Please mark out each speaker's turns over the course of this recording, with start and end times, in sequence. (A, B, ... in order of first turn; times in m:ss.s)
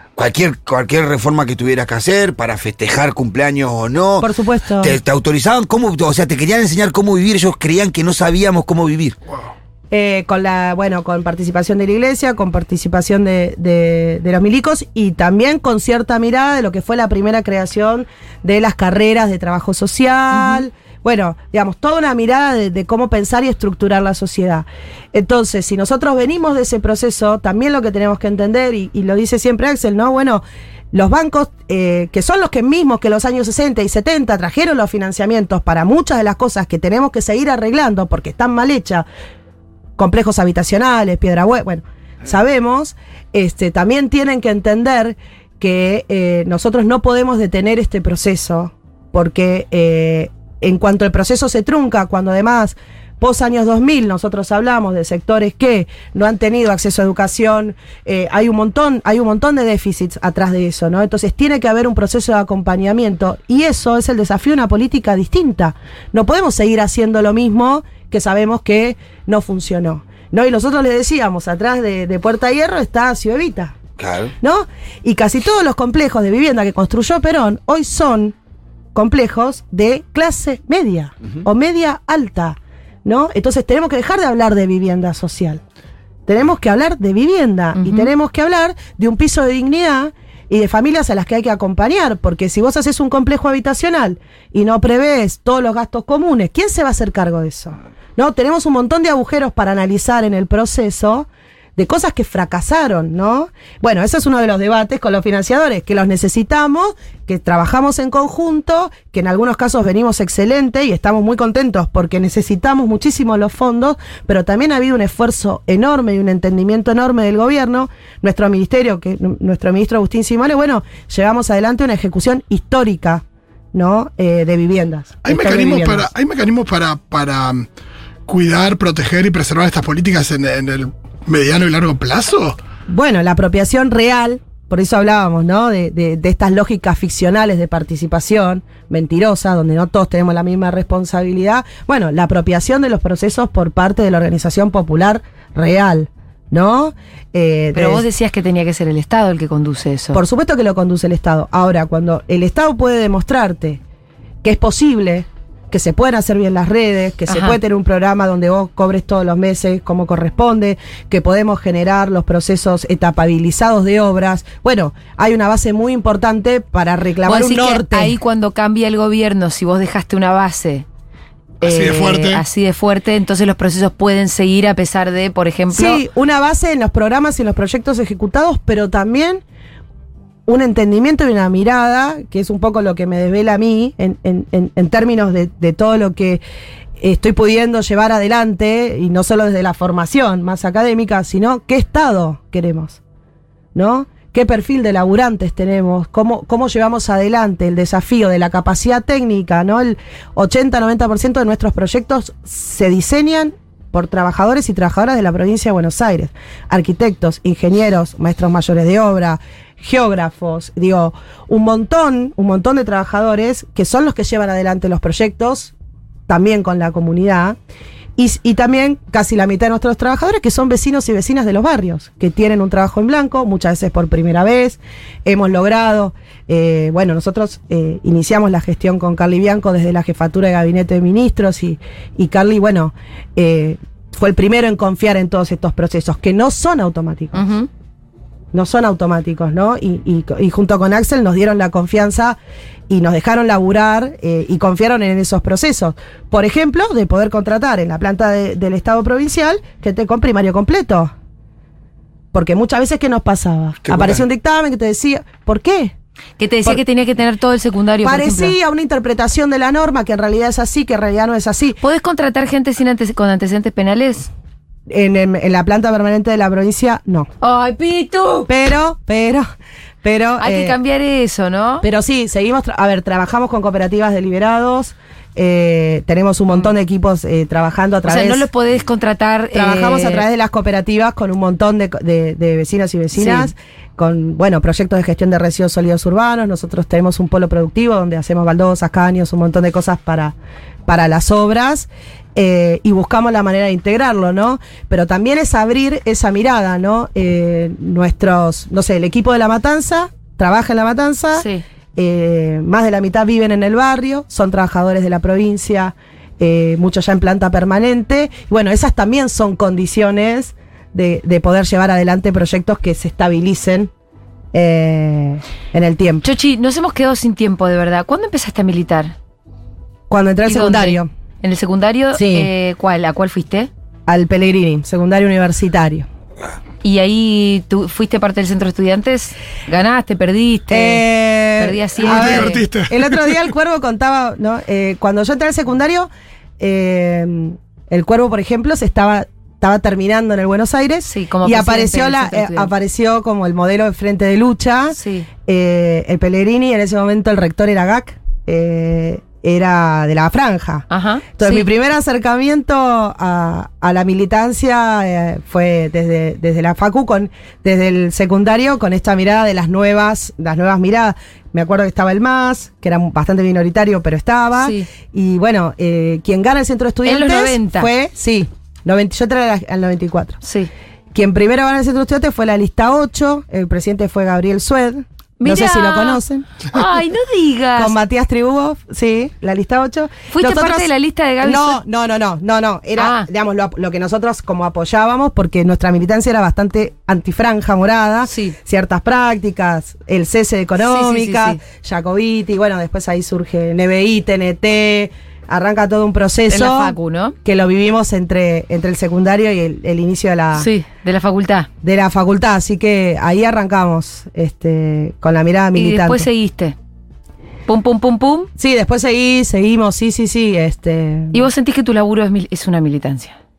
0:00.2-0:04.3 A
0:04.2-0:05.0 B
0:04.8-0:09.2 A
0:09.9-0:39.0 B
0:20.3-0:20.6 C
0:40.0-1:13.8 B
1:14.0-1:14.3 A
1:14.4-1:18.3 B
1:18.9-1:25.6 B
1:26.3-2:06.1 B
1:27.8-1:28.1 C
2:05.2-2:07.7 D
2:08.3-2:12.6 D
2:12.9-2:28.0 B
2:27.7-2:30.2 C
2:30.1-2:33.8 B
2:34.4-2:48.1 B
2:37.3-2:37.6 C
2:47.2-2:50.8 C
2:51.6-2:52.4 D
2:51.6-2:56.0 C
2:55.7-2:59.4 B
3:00.4-3:06.4 B
3:07.0-3:13.0 B
3:13.7-3:35.7 B
3:36.3-3:37.6 B
3:38.2-3:57.4 B
3:57.3-3:57.7 C
3:58.5-4:02.4 B
4:02.9-4:11.1 B
4:12.3-4:15.9 B
4:13.8-4:14.2 A
4:16.4-4:18.5 C
4:18.0-4:21.8 B
4:21.8-4:24.3 C
4:24.9-4:27.3 B
4:27.4-4:28.5 C
4:28.5-4:29.4 B
4:30.0-4:30.8 B
4:30.4-4:31.8 C
4:31.8-4:38.4 B
4:38.0-4:40.2 C
4:39.5-4:50.3 B
4:43.1-4:43.5 C
4:50.8-5:13.9 B
5:01.3-5:01.6 C
5:14.5-5:16.2 B
5:16.2-5:19.1 C
5:20.1-5:21.1 B
5:20.4-5:23.7 C
5:22.1-5:22.5 B
5:24.1-5:26.1 B
5:26.8-5:31.0 C
5:30.7-6:10.4 B
5:31.6-5:32.6 C
5:32.0-5:33.4 D
5:41.0-5:42.7 C
5:44.9-5:45.3 C
5:50.9-5:51.7 C
6:04.6-6:04.9 C
6:07.0-6:07.9 C
6:10.4-6:10.7 C
6:11.1-6:16.4 B
6:15.4-6:18.0 C
6:17.8-6:20.9 B
6:20.3-6:21.8 C
6:21.4-6:40.7 B
6:23.0-6:23.3 C
6:28.2-6:28.6 C
6:30.8-6:31.6 C
6:36.5-6:37.3 C
6:40.5-6:41.7 C
6:41.8-6:46.2 B
6:45.7-6:46.8 C
6:47.7-6:48.5 C
6:48.6-6:51.4 B
6:51.3-6:53.4 C